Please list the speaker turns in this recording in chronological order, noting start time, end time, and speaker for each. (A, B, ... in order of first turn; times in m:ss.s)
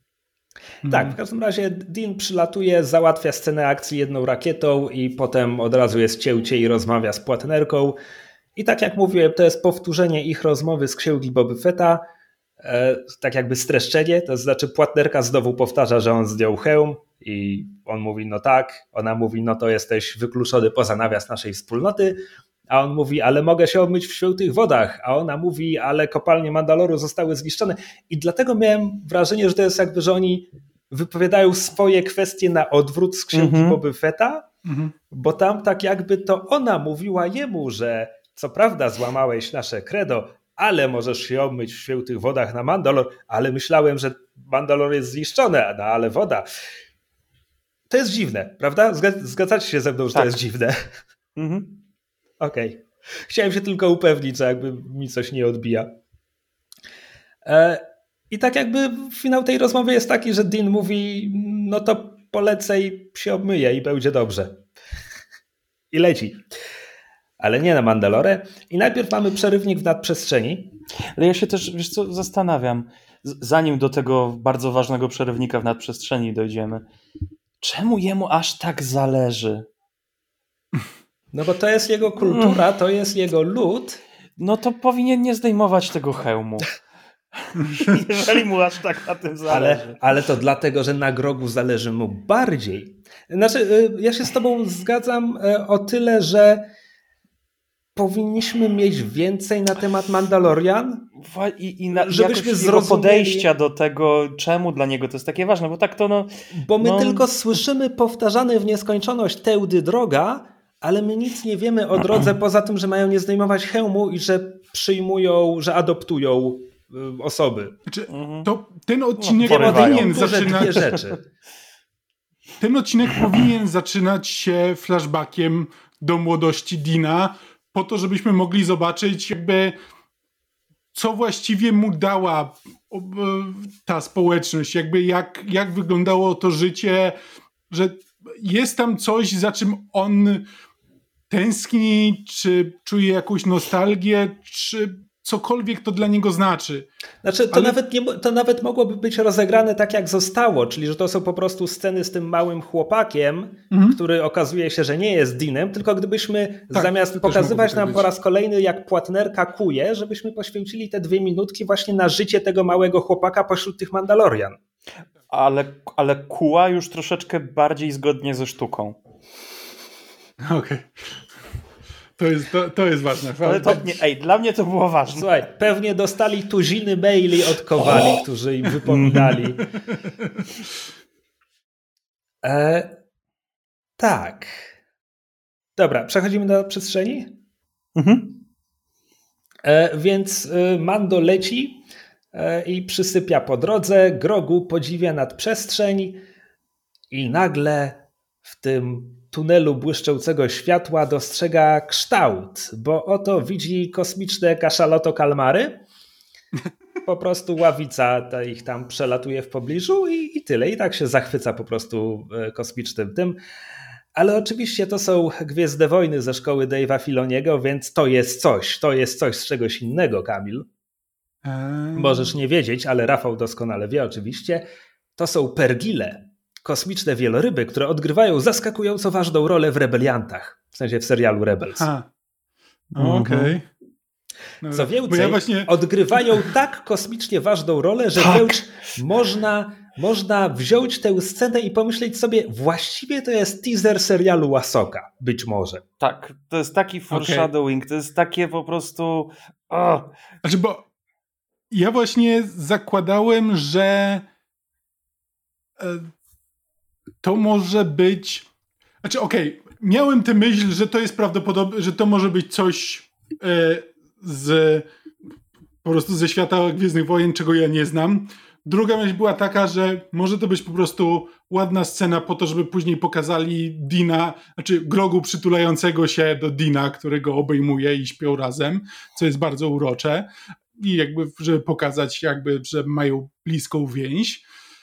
0:00.8-0:01.2 A
0:00.8-0:08.0 B
0:08.6-0:12.0 B
0:12.6-0:22.2 B
0:22.7-0:34.5 B
0:33.3-0:33.8 C
0:34.6-0:34.9 A
0:35.1-0:46.4 B
0:47.9-0:50.8 B
0:50.1-0:50.4 C
0:51.4-0:51.8 C
0:52.4-0:55.9 B
0:57.4-1:04.6 B
1:05.9-1:06.4 B
1:07.4-1:10.7 B
1:11.2-1:16.8 C
1:17.6-1:19.6 C
1:21.3-1:24.0 B
1:22.2-1:22.6 C
1:24.4-1:26.8 C
1:27.4-1:30.0 C
1:29.5-1:36.6 B
1:38.0-1:41.1 B
1:41.2-1:47.2 C
1:41.9-1:43.5 B
1:46.5-1:57.8 B
1:57.9-2:00.8 A
1:58.1-1:58.5 C
1:59.2-2:01.0 C
1:59.4-2:01.2 B
2:02.6-2:09.8 A
2:10.9-2:17.2 A
2:17.7-2:20.4 A
2:21.3-2:26.9 A
2:27.2-2:44.6 B
2:33.7-2:34.0 A
2:36.7-2:38.1 A
2:45.3-2:49.0 C
2:50.4-2:51.2 A
2:52.2-2:54.0 A
2:53.4-2:55.3 C
2:55.1-2:59.6 B
2:57.8-2:58.2 C
2:58.8-2:59.6 C
2:59.9-3:00.4 A
3:02.4-3:02.9 B
3:04.0-3:04.6 B
3:05.8-3:07.3 B
3:07.9-3:08.3 C
3:09.6-3:11.8 B
3:12.3-3:16.2 B
3:17.1-3:25.8 B
3:27.0-3:33.4 B
3:34.1-3:40.6 B
3:41.4-3:42.3 A
3:42.0-3:44.6 B
3:45.2-3:51.9 B
3:51.8-3:52.1 A
3:53.0-3:53.6 C
3:53.0-3:53.6 A
3:54.6-3:55.7 A
3:54.7-4:05.8 B
3:58.2-3:58.6 C
4:06.0-4:10.1 C
4:07.1-4:07.5 A
4:10.4-4:10.8 A
4:11.7-4:14.2 A
4:15.8-4:16.1 A
4:17.2-4:18.5 A
4:19.0-4:24.8 A
4:25.8-4:44.4 A